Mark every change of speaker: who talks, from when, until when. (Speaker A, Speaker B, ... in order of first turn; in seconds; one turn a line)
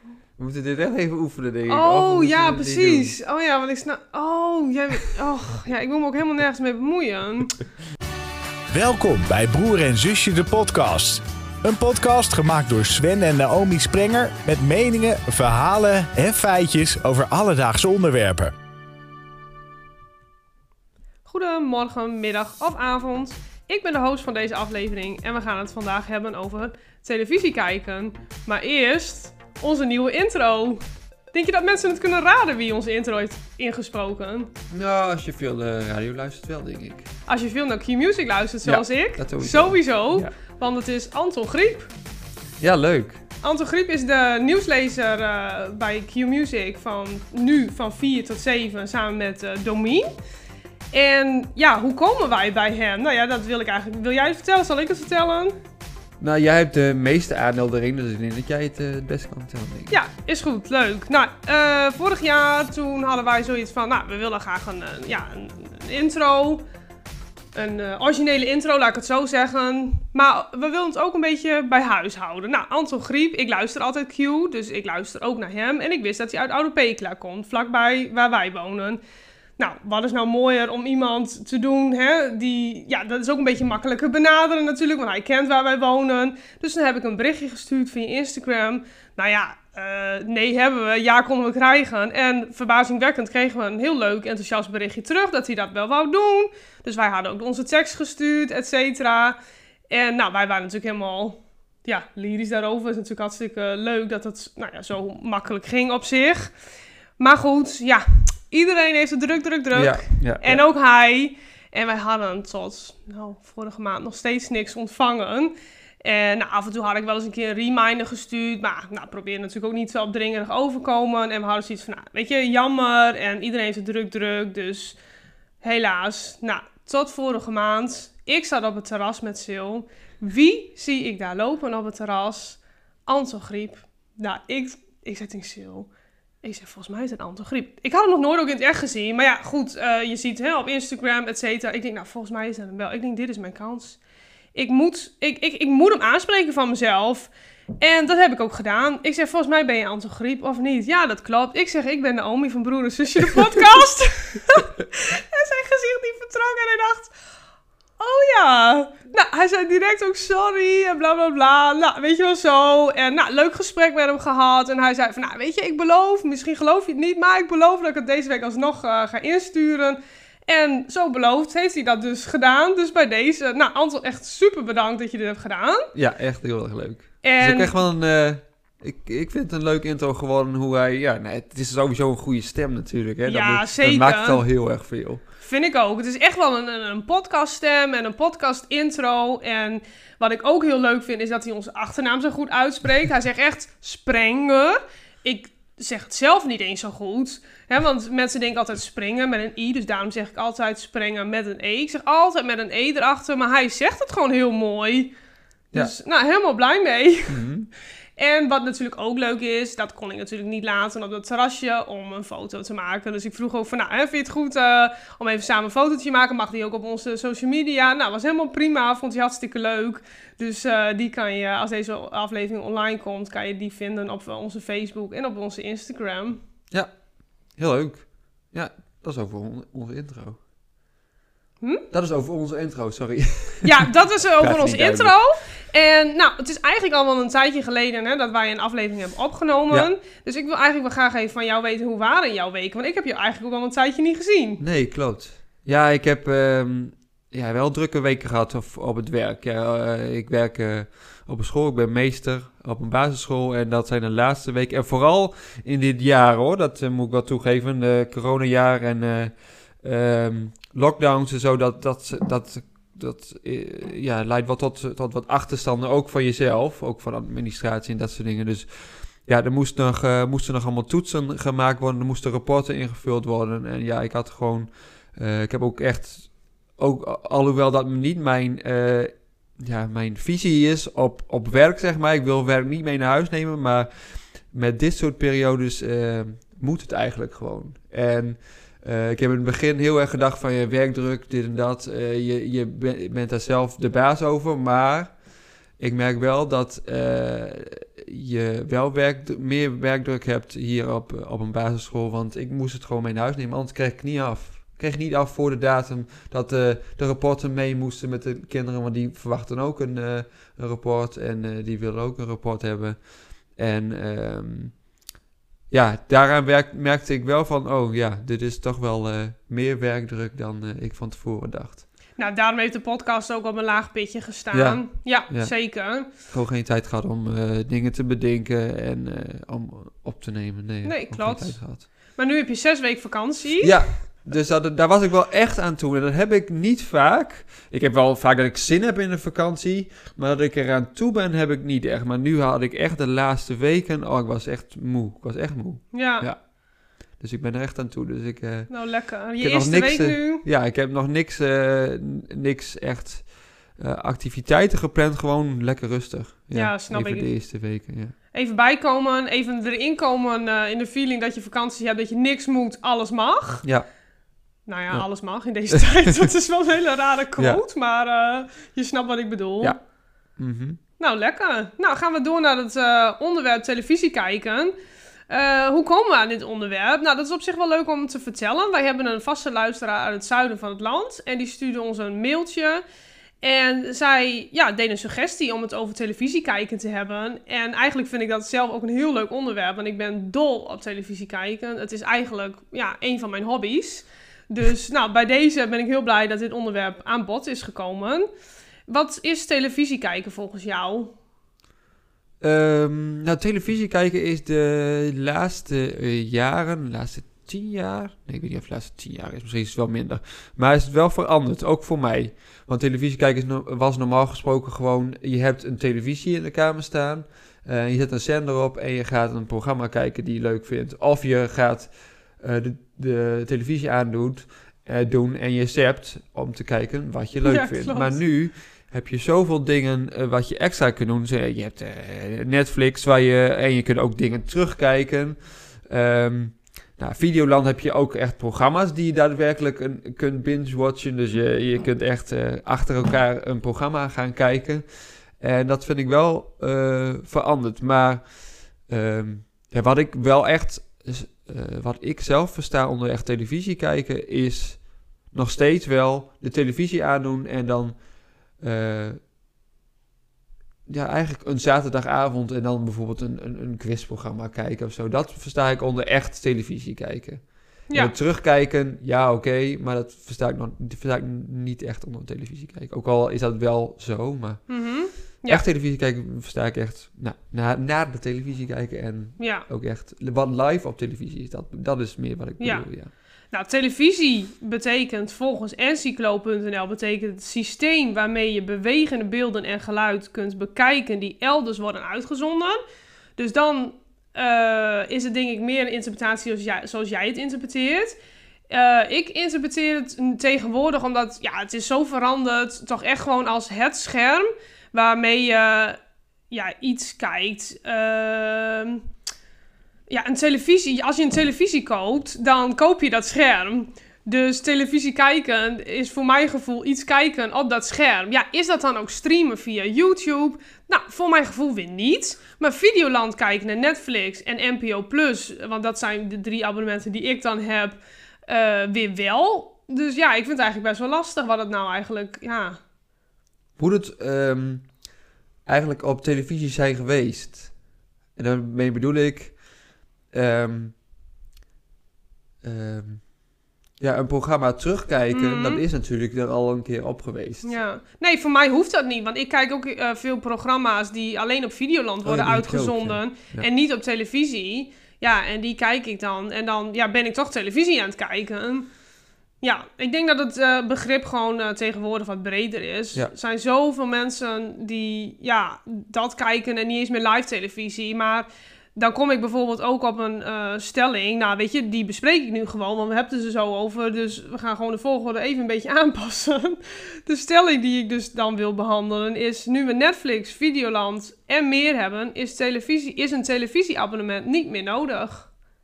Speaker A: 0.4-3.1
Speaker B: 1.7-7.6
Speaker C: 8.7-18.5
Speaker B: 21.2-34.5
Speaker A: 34.7-37.1
Speaker B: 37.3-41.9
Speaker A: 38.6-40.3
Speaker A: 42.6-43.2
Speaker B: 43.4-50.1
Speaker B: 50.9-55.5
Speaker A: 56.2-60.0
Speaker B: 59.9-66.6
Speaker B: 67.5-79.0
Speaker B: 79.6-99.4
Speaker B: 99.9-106.5
Speaker B: 107.2-125.0
Speaker A: 109.7-110.6
Speaker B: 125.6-135.9
Speaker B: 136.4-144.0
Speaker B: 144.5-157.1
Speaker B: 158.0-175.9
Speaker A: 175.9-185.2
Speaker B: 177.2-177.7
Speaker B: 183.2-184.4
Speaker B: 185.4-205.1
Speaker B: 205.7-207.4
Speaker A: 207.3-207.7
Speaker B: 208.2-226.4
Speaker A: 227.6-230.4
Speaker B: 231.6-231.8
Speaker A: 231.9-233.8
Speaker B: 233.6-244.6
Speaker A: 234.4-235.1
Speaker A: 244.6-295.2
Speaker A: 295.7-314.8
Speaker A: 315.7-321.9
Speaker B: 322.2-326.1
Speaker A: 324.5-325.6
Speaker A: 326.1-331.9
Speaker B: 330.8-333.7
Speaker A: 333.6-346.4
Speaker B: 345.9-346.3
Speaker A: 347.1-348.8
Speaker B: 348.7-350.4
Speaker A: 349.4-358.1
Speaker B: 356.5-357.3
Speaker B: 358.3-363.6
Speaker B: 364.6-369.8
Speaker A: 365.7-366.2
Speaker A: 370.4-370.8
Speaker B: 371.0-374.7
Speaker B: 375.3-382.8
Speaker B: 383.4-398.3
Speaker B: 398.9-401.1
Speaker A: 402.4-444.9
Speaker B: 427.4-428.2
Speaker A: 445.4-458.0
Speaker A: 458.6-459.2
Speaker A: 460.9-474.7
Speaker B: 467.9-468.1
Speaker B: 474.7-475.6
Speaker A: 475.5-483.1
Speaker B: 479.4-479.7
Speaker B: 482.6-482.9
Speaker B: 483.5-492.8
Speaker B: 493.4-498.2
Speaker B: 498.7-506.0
Speaker B: 506.5-509.0
Speaker B: 510.1-532.8
Speaker A: 533.8-535.0
Speaker A: 535.6-537.7
Speaker A: 538.4-539.6
Speaker A: 540.3-541.0
Speaker A: 542.6-543.3
Speaker A: 544.0-547.8
Speaker B: 545.3-545.8
Speaker B: 547.6-558.9
Speaker A: 552.2-553.7
Speaker B: 559.6-585.5